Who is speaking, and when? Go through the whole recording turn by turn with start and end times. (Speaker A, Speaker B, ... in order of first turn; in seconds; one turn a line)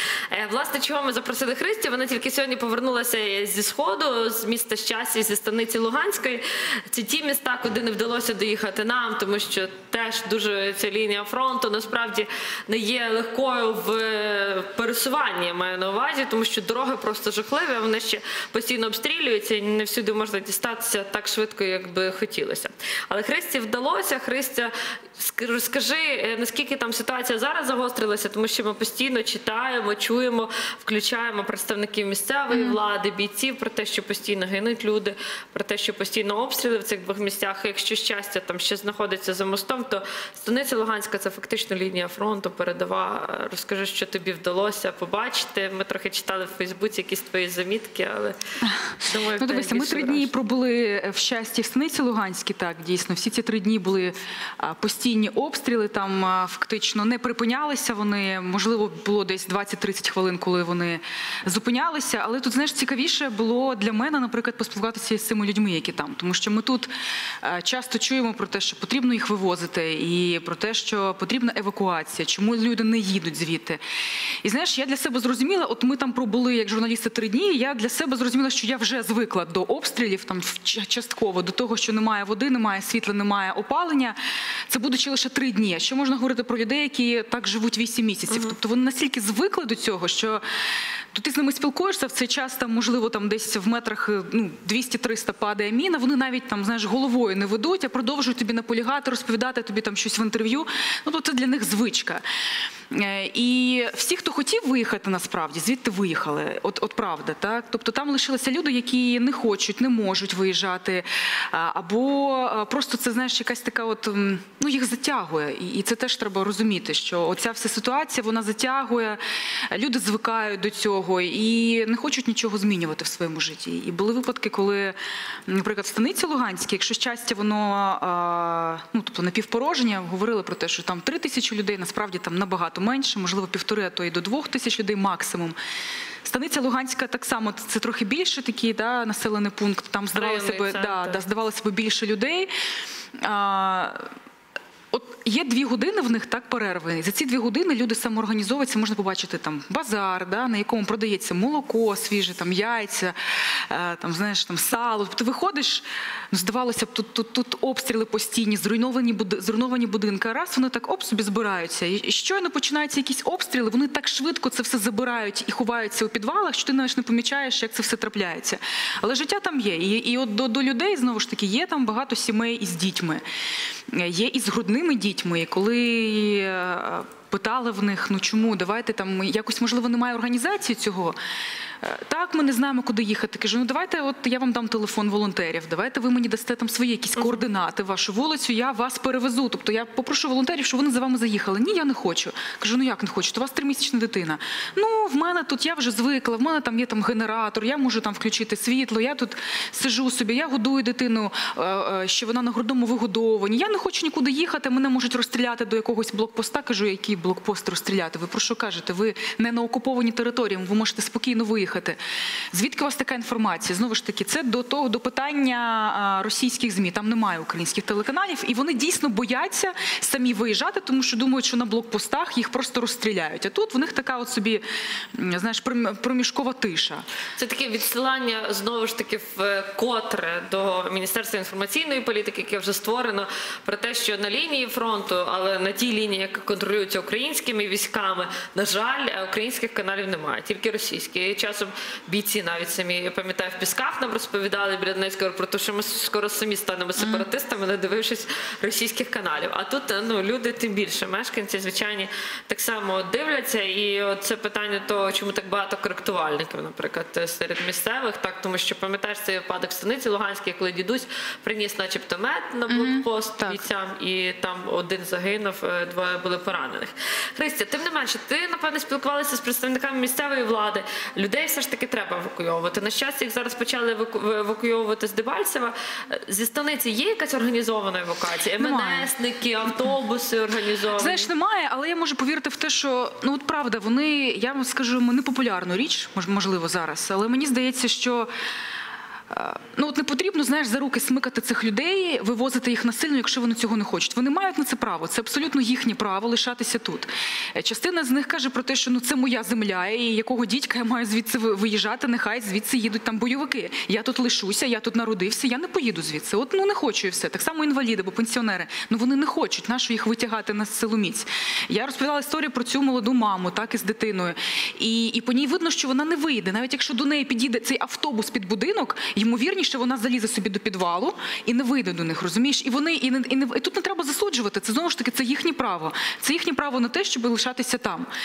Speaker A: 0.3-48.4
Speaker B: 32.5-32.8
Speaker A: 49.0-50.3
Speaker B: 49.4-66.9
Speaker B: 67.4-73.8
Speaker B: 74.4-84.2
Speaker B: 84.7-90.4
Speaker A: 88.3-88.6
Speaker B: 91.1-102.2
Speaker B: 102.9-119.2
Speaker B: 119.7-125.0
Speaker B: 125.5-135.6
Speaker B: 136.2-142.5
Speaker A: 140.2-141.2
Speaker B: 143.2-144.1
Speaker B: 144.9-173.2
Speaker B: 173.9-181.2
Speaker B: 181.8-212.0
Speaker A: 187.2-187.5
Speaker B: 212.5-227.1
Speaker A: 227.4-281.3
Speaker B: 247.0-247.3
Speaker B: 262.7-263.6
Speaker B: 278.6-279.1
Speaker B: 281.0-288.3
Speaker B: 289.3-328.1